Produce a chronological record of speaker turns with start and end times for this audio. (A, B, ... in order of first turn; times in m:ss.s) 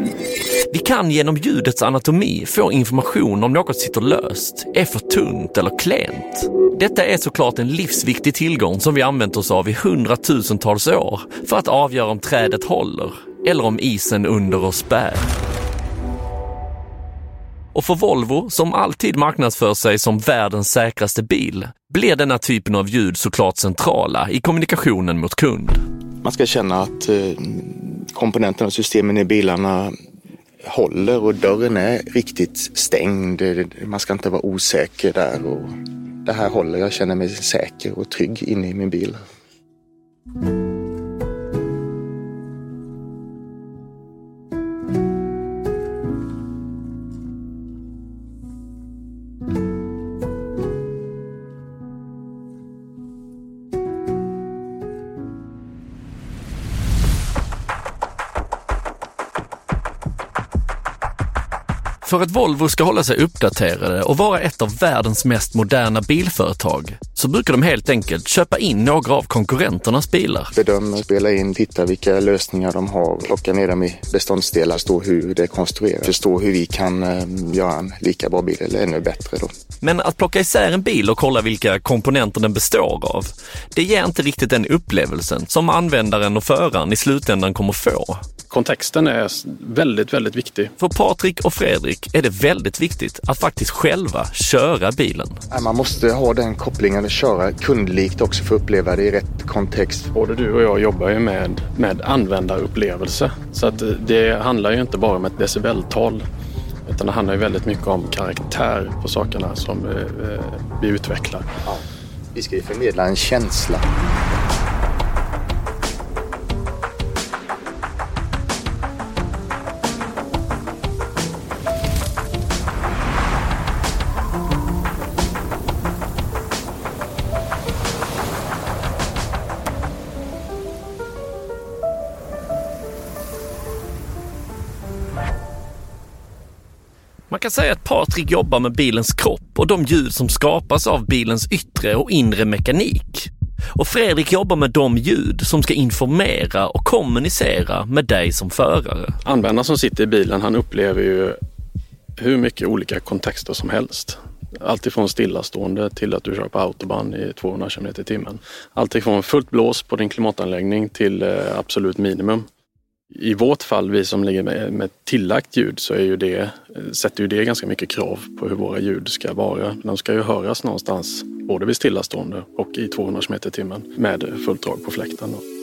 0:00.7-0:15.3 A
0:17.7-0:25.8 A
0:26.2-0:29.9 B
0:30.6-0:35.7 B
0:36.2-0:39.2 B
1:02.0-1:10.5 A
1:10.5-1:19.5 B
1:19.8-1:28.2 A
1:28.5-1:30.7 C
1:30.8-1:35.4 A
1:35.5-1:40.1 B
1:40.1-1:46.2 C
1:46.9-1:51.5 C
1:51.6-1:53.9 B
2:17.3-2:29.2 A
2:29.2-2:31.4 C
2:32.2-2:42.4 C
2:43.1-2:55.4 C